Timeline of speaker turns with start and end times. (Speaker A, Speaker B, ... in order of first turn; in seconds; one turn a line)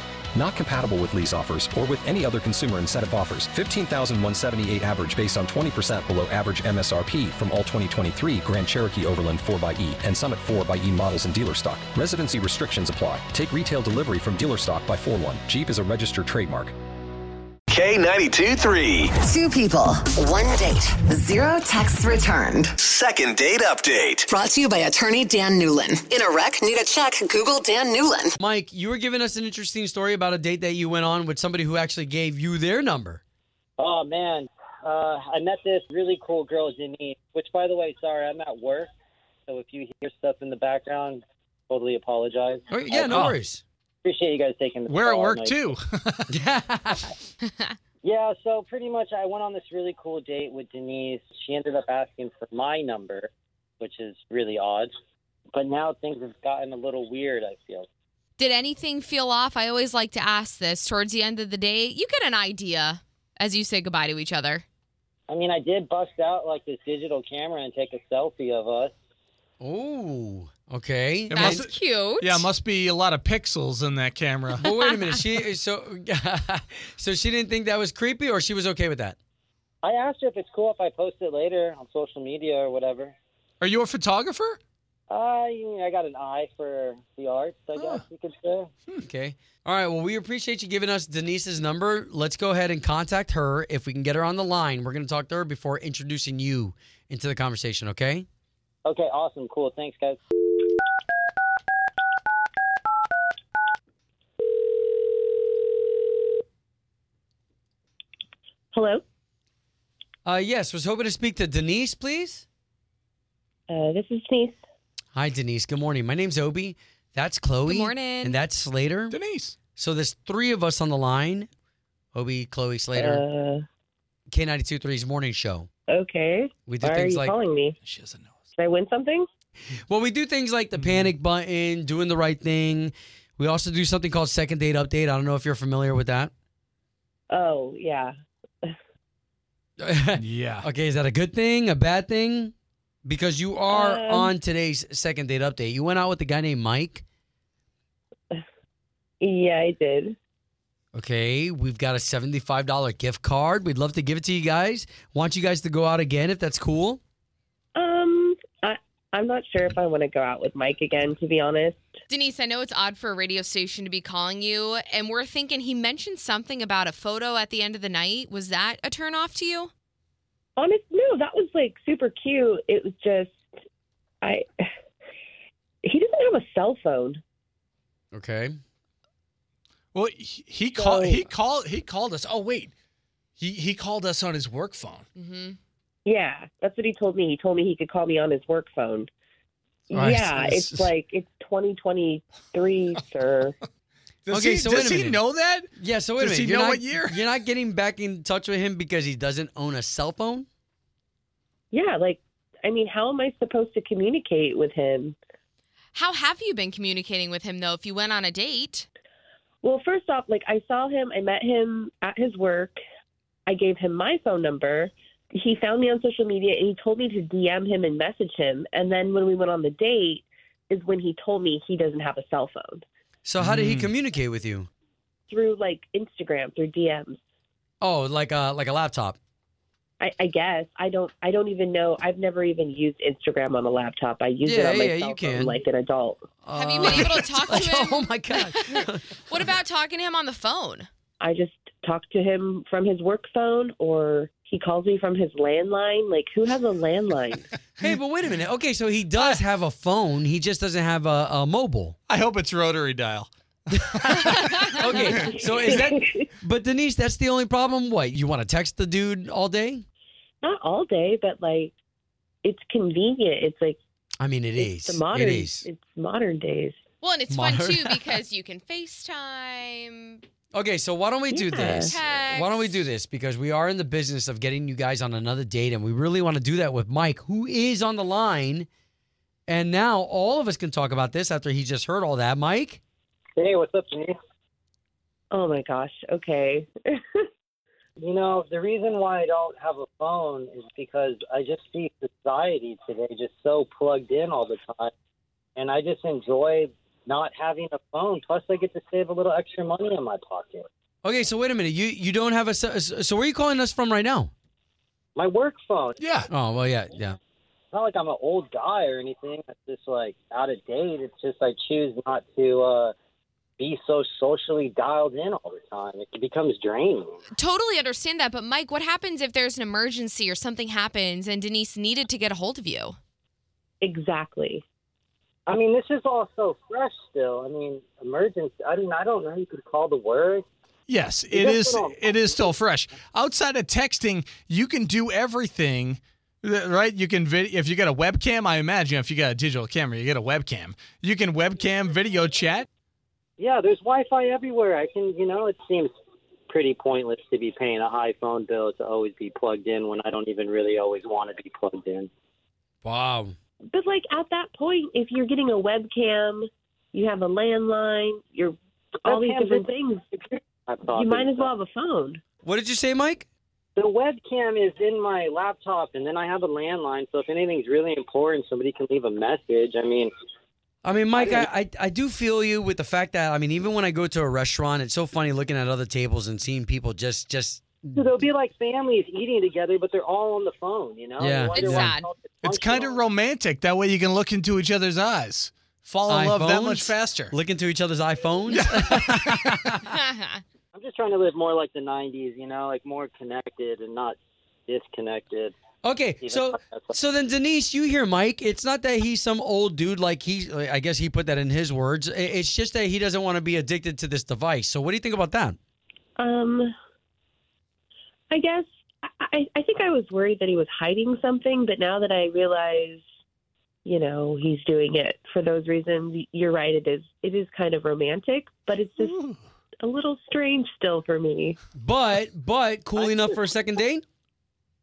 Speaker A: 0.3-16.8
Speaker B: 17.7-19.1
Speaker C: 19.1-22.7
Speaker B: 22.8-24.3
Speaker C: 24.3-28.3
Speaker D: 28.4-33.2
Speaker E: 33.8-38.9
Speaker E: 39.5-43.2
Speaker D: 42.7-43.6
Speaker F: 43.0-43.4
Speaker E: 44.0-45.7
Speaker F: 44.9-46.3
Speaker D: 46.3-47.1
Speaker E: 48.0-54.9
Speaker E: 55.5-57.9
Speaker G: 58.4-64.6
Speaker E: 65.3-68.9
Speaker D: 69.6-71.6
Speaker F: 71.3-74.6
Speaker G: 71.3-72.5
Speaker D: 74.6-79.2
Speaker G: 74.7-75.0
Speaker E: 79.8-83.2
Speaker F: 83.6-84.6
Speaker E: 85.1-88.7
Speaker F: 87.8-88.0
Speaker D: 89.0-98.3
Speaker E: 98.8-100.2
Speaker H: 108.7-109.0
Speaker D: 110.3-112.5
Speaker H: 113.7-114.6
Speaker D: 115.1-119.1
Speaker G: 117.7-118.4
Speaker F: 119.1-119.6
Speaker D: 119.8-121.5
Speaker D: 122.1-123.2
Speaker H: 123.0-123.6
Speaker D: 124.3-125.7
Speaker H: 125.9-127.8
Speaker D: 126.7-127.3
Speaker F: 127.9-128.3
Speaker H: 128.6-129.3
Speaker D: 129.9-136.3
Speaker F: 130.8-131.1
Speaker H: 137.3-138.1
Speaker D: 139.8-142.5
Speaker F: 140.2-140.7
Speaker D: 143.1-147.0
Speaker H: 143.7-144.3
Speaker H: 149.2-150.2
Speaker D: 150.9-157.0
Speaker H: 157.8-161.9
Speaker G: 162.1-169.7
Speaker H: 170.6-173.5
Speaker H: 174.2-174.7
Speaker H: 175.8-177.2
Speaker D: 178.1-178.6
Speaker F: 179.9-182.7
Speaker H: 180.8-181.3
Speaker F: 183.4-185.1
Speaker G: 185.2-185.6
Speaker H: 186.1-189.1
Speaker H: 189.9-193.6
Speaker D: 189.9-190.9
Speaker F: 194.3-197.2
Speaker D: 194.3-195.2
Speaker D: 195.8-200.5
Speaker H: 201.7-205.2
Speaker G: 205.9-208.9
Speaker H: 209.6-212.8
Speaker H: 213.5-222.8
Speaker D: 223.2-224.7
Speaker F: 223.4-223.9
Speaker H: 225.3-227.2
Speaker D: 227.8-229.2
Speaker H: 230.0-236.2
Speaker D: 234.4-235.6
Speaker D: 236.4-239.1
Speaker G: 236.6-240.9
Speaker H: 241.2-247.5
Speaker D: 247.8-252.0
Speaker F: 252.1-255.1
Speaker D: 254.8-259.8
Speaker H: 254.9-256.2
Speaker H: 260.4-261.7
Speaker H: 262.4-263.8
Speaker D: 264.2-265.6
Speaker H: 264.6-266.8
Speaker G: 267.0-270.2
Speaker D: 267.3-268.2
Speaker D: 270.5-278.7
Speaker H: 271.3-272.0
Speaker G: 271.9-272.8
Speaker D: 279.5-282.8
Speaker E: 283.4-284.2
Speaker H: 285.3-287.2
Speaker E: 288.0-294.9
Speaker E: 295.6-300.7
Speaker D: 301.0-304.3
Speaker E: 305.2-306.0
Speaker F: 306.0-306.3
Speaker D: 306.3-307.2
Speaker E: 307.7-312.9
Speaker E: 313.6-317.2
Speaker G: 317.4-323.0
Speaker H: 323.8-324.6
Speaker E: 325.5-330.4
Speaker F: 330.9-342.7
Speaker E: 331.3-332.5
Speaker E: 343.4-345.9
Speaker E: 346.5-352.1
Speaker D: 352.8-353.4
Speaker H: 353.7-360.2
Speaker E: 359.1-359.7
Speaker E: 360.7-361.5
Speaker H: 360.9-362.2
Speaker D: 362.4-363.3
Speaker E: 363.8-370.1
Speaker D: 370.8-378.1
Speaker E: 371.2-371.5
Speaker E: 378.0-383.1
Speaker D: 381.2-381.9
Speaker G: 381.5-382.1
Speaker F: 382.4-387.3
Speaker D: 386.1-389.9
Speaker F: 388.5-389.6
Speaker G: 389.9-390.4
Speaker E: 390.8-394.2
Speaker E: 394.7-395.6
Speaker D: 395.8-405.6
Speaker E: 396.2-397.0
Speaker H: 406.2-406.7
Speaker H: 408.3-408.7
Speaker H: 409.2-413.0
Speaker H: 413.9-419.2
Speaker H: 419.8-421.6
Speaker D: 421.8-424.0
Speaker E: 423.0-423.5